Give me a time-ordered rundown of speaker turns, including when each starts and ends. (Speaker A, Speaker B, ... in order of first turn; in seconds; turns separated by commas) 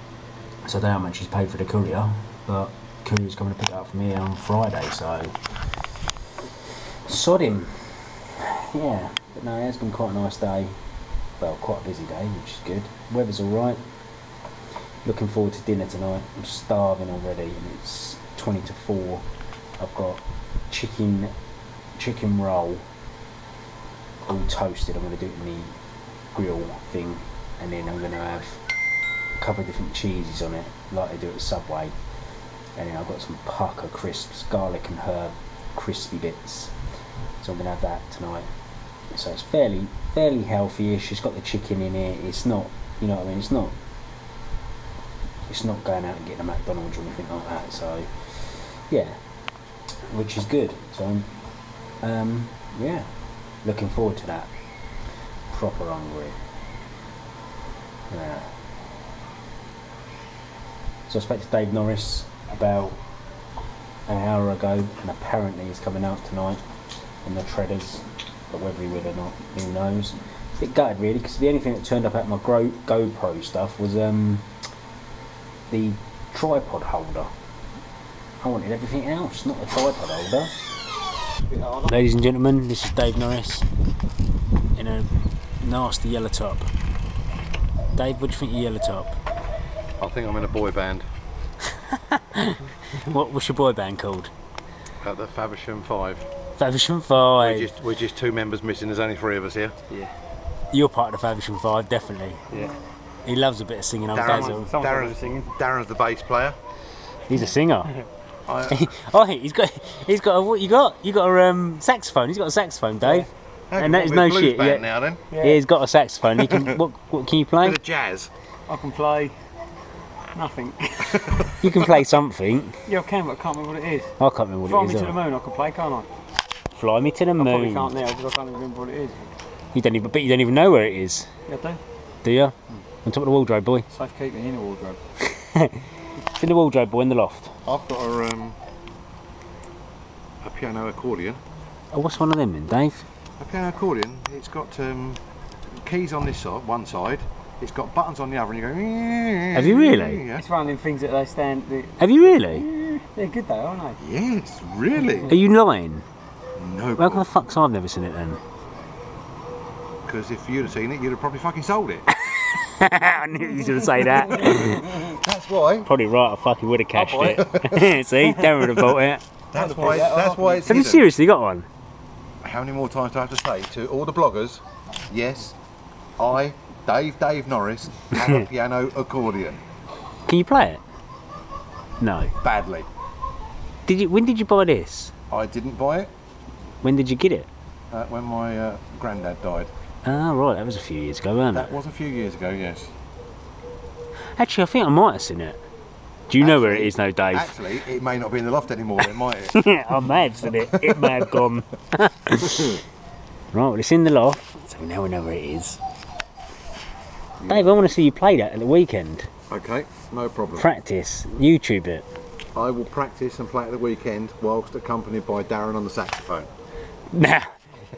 Speaker A: 0.6-5.4, Speaker A: 7.0-10.8, Speaker A: 11.4-13.8, Speaker A: 15.0-19.2, Speaker A: 19.8-21.3, Speaker A: 21.9-22.8, Speaker A: 24.2-25.7, Speaker A: 26.3-28.6, Speaker A: 29.4-31.9, Speaker A: 32.8-36.7, Speaker A: 37.4-38.5, Speaker A: 39.1-43.7, Speaker A: 45.5-49.2, Speaker A: 50.1-51.3, Speaker A: 52.0-53.1, Speaker A: 53.6-54.5, Speaker A: 55.5-56.4, Speaker A: 58.1-58.5, Speaker A: 61.1-63.0, Speaker A: 64.1-66.6, Speaker A: 67.2-74.5, Speaker A: 75.7-77.3, Speaker A: 78.4-80.5, Speaker B: 81.5-81.9, Speaker A: 81.7-83.7, Speaker A: 84.7-85.1, Speaker A: 85.6-86.7, Speaker A: 87.9-89.2, Speaker C: 90.0-91.0, Speaker A: 91.8-94.3, Speaker C: 95.0-96.3, Speaker A: 96.6-97.7, Speaker C: 97.4-99.8, Speaker A: 100.7-102.4, Speaker A: 103.2-104.7, Speaker C: 104.1-106.6, Speaker B: 104.2-105.5, Speaker A: 107.3-107.9, Speaker C: 108.5-108.8, Speaker A: 108.7-117.8, Speaker C: 113.7-115.2, Speaker B: 115.3-115.6, Speaker C: 116.3-116.8, Speaker C: 117.6-118.3, Speaker B: 118.7-119.3, Speaker B: 120.3-121.5, Speaker C: 121.2-121.8, Speaker A: 121.6-122.8, Speaker B: 122.8-124.1, Speaker A: 124.2-125.2, Speaker B: 124.7-126.1, Speaker A: 126.7-128.0, Speaker B: 127.4-129.3, Speaker A: 129.7-131.3, Speaker B: 131.5-131.8, Speaker A: 132.2-133.8, Speaker B: 133.9-135.0, Speaker A: 135.3-137.6, Speaker C: 137.6-138.6, Speaker C: 140.4-141.4, Speaker A: 141.9-143.1, Speaker C: 143.4-145.2, Speaker C: 145.8-150.5, Speaker A: 149.5-150.2, Speaker B: 150.3-154.0, Speaker A: 152.0-152.7, Speaker C: 154.0-155.3, Speaker A: 155.2-156.1, Speaker C: 156.6-157.3, Speaker A: 157.0-158.4, Speaker C: 160.0-162.1, Speaker A: 162.2-165.1, Speaker C: 164.5-165.9, Speaker A: 165.8-169.2, Speaker B: 166.9-167.4, Speaker C: 167.3-168.0, Speaker C: 169.5-171.0, Speaker B: 169.5-170.7, Speaker A: 170.7-171.7, Speaker C: 172.4-175.5, Speaker C: 176.2-179.6, Speaker A: 180.3-180.8, Speaker A: 182.0-182.3, Speaker C: 182.4-182.9, Speaker A: 183.9-185.1, Speaker C: 185.3-186.1, Speaker A: 186.8-187.5, Speaker C: 187.9-189.7, Speaker A: 190.0-191.7, Speaker C: 191.5-192.9, Speaker A: 194.3-195.6, Speaker A: 196.3-197.6, Speaker C: 196.4-200.0, Speaker A: 199.5-202.8, Speaker C: 200.5-201.3, Speaker A: 203.5-205.8, Speaker C: 207.4-207.8, Speaker A: 207.5-209.3, Speaker C: 209.5-210.7, Speaker A: 210.5-212.1, Speaker C: 212.5-216.5, Speaker A: 217.1-217.5